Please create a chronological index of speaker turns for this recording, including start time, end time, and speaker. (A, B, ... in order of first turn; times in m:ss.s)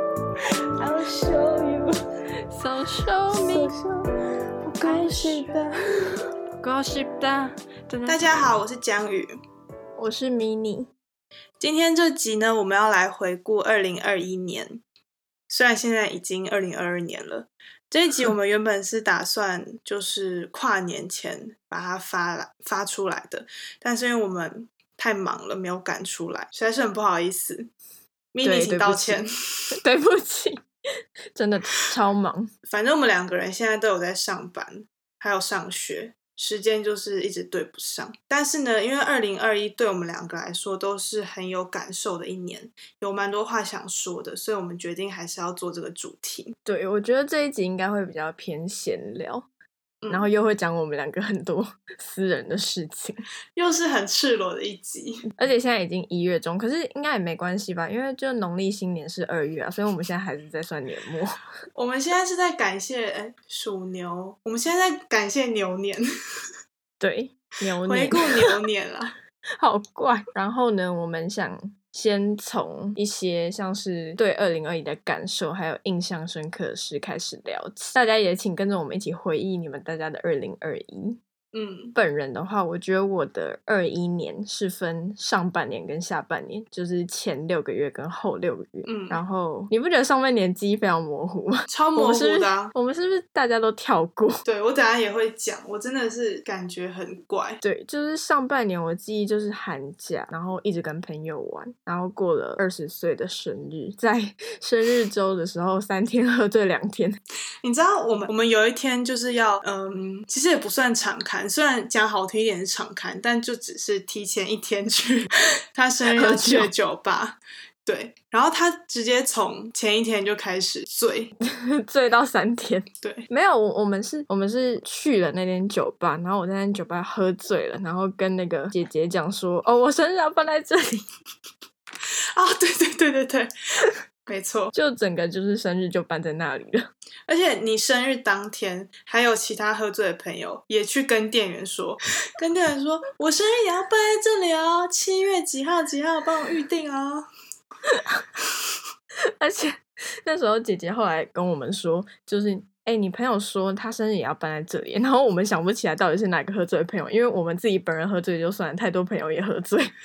0:00.8-0:01.9 A
0:02.5-0:03.7 B
0:03.3-0:04.0 A
0:04.6-0:05.7 A
0:04.8-0:05.6 B
0:06.6-0:08.3 B
0:08.1-0:09.3 A
0:10.0-0:10.9 B
0:11.6-0:14.8 A
0:15.5-0:27.7 A
0:28.3-0:29.3 A
0:28.4-0:29.2 B
0:29.8-0:30.6 B
0:31.4-0:32.5 B
0:32.7-0:46.6 A
0:46.7-0:49.5 B
0:50.0-0:50.3 A
0:50.1-0:53.2 B
0:53.6-0:55.3 A
0:55.4-1:01.4 B
1:01.8-1:06.0 A
1:07.0-1:08.5 B
1:07.8-1:09.2 A
1:09.6-1:21.2 B
1:21.5-1:22.0 A
1:22.0-1:34.4 B
1:28.9-1:29.2 A
1:31.7-1:32.7 A
1:34.4-1:37.6 A
1:37.6-1:47.2 B
1:47.6-2:01.3 A
1:56.1-1:56.7 B
2:01.4-2:11.0 B
2:03.0-2:03.3 A
2:12.4-2:14.7 A
2:14.7-2:16.9 B
2:17.3-2:27.3 A
2:27.8-2:28.2 B
2:29.4-2:39.9 B